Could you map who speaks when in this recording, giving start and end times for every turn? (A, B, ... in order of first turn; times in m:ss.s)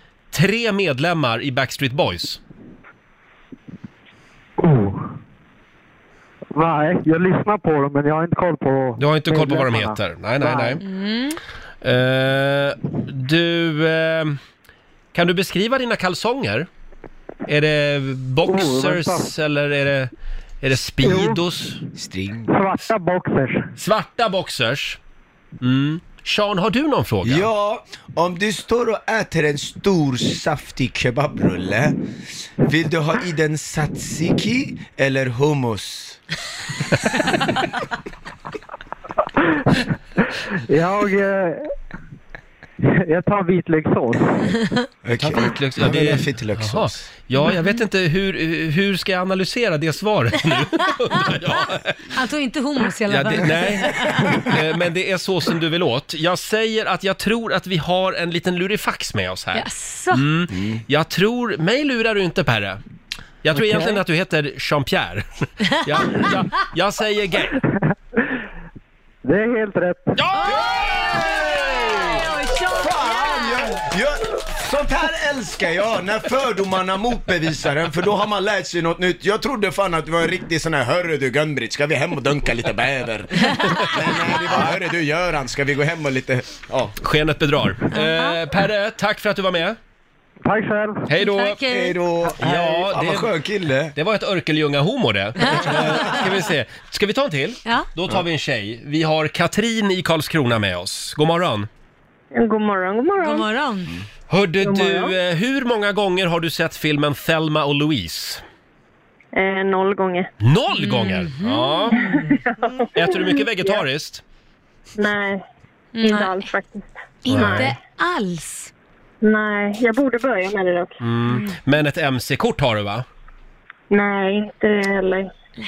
0:00.3-0:02.4 A
0:04.6-0:05.1 B
0:06.5-0:10.8 B
0:09.0-0:10.8 A
0:10.8-0:11.4 C
0:11.8-0:14.4 A
0:15.1-0:16.7 A
0:17.5-0:20.1 A
0:18.4-0:19.3 B
0:20.6-0:21.8 A
0:21.0-0:21.4 B
0:21.9-0:22.5 D
0:22.5-0:23.7 B
0:23.8-0:25.0 A
0:25.6-0:27.5 A
0:27.2-0:32.0 D
0:32.6-0:36.2 D
0:40.7-0:41.7 B
0:42.8-0:44.5 B
0:45.0-0:47.0 D
0:45.1-0:52.1 A
0:47.4-0:47.7 C
0:52.1-0:54.4 C
0:53.1-1:02.8 A
0:59.5-1:00.2 C
1:00.5-1:00.8 D
1:03.4-1:07.6 A
1:03.6-1:03.9 B
1:09.2-1:10.2 B
1:10.2-1:12.0 A
1:10.3-1:13.8 C
1:12.7-1:27.0 D
1:23.4-1:24.2 C
1:27.0-1:29.8 A
1:27.9-1:28.4 C
1:30.4-1:31.1 B
1:31.1-1:31.6 A
1:31.2-1:32.0 C
1:31.7-1:33.9 D
1:32.4-1:33.3 A
1:33.9-1:41.7 A
1:35.4-1:36.2 C
1:35.7-1:36.1 D
1:42.3-1:43.5 E
1:43.2-1:43.9 C
1:44.3-1:48.4 A
1:44.6-1:45.1 E
1:49.3-1:50.3 E
1:50.4-1:52.0 A
1:50.7-1:52.2 C
1:52.9-1:54.2 A
1:55.0-1:55.4 E
1:55.9-1:56.5 C
1:56.0-1:57.7 E
1:57.2-1:58.7 C
1:57.3-1:57.7 A
1:59.2-2:01.0 E
2:01.0-2:03.0 A
2:03.9-2:05.3 E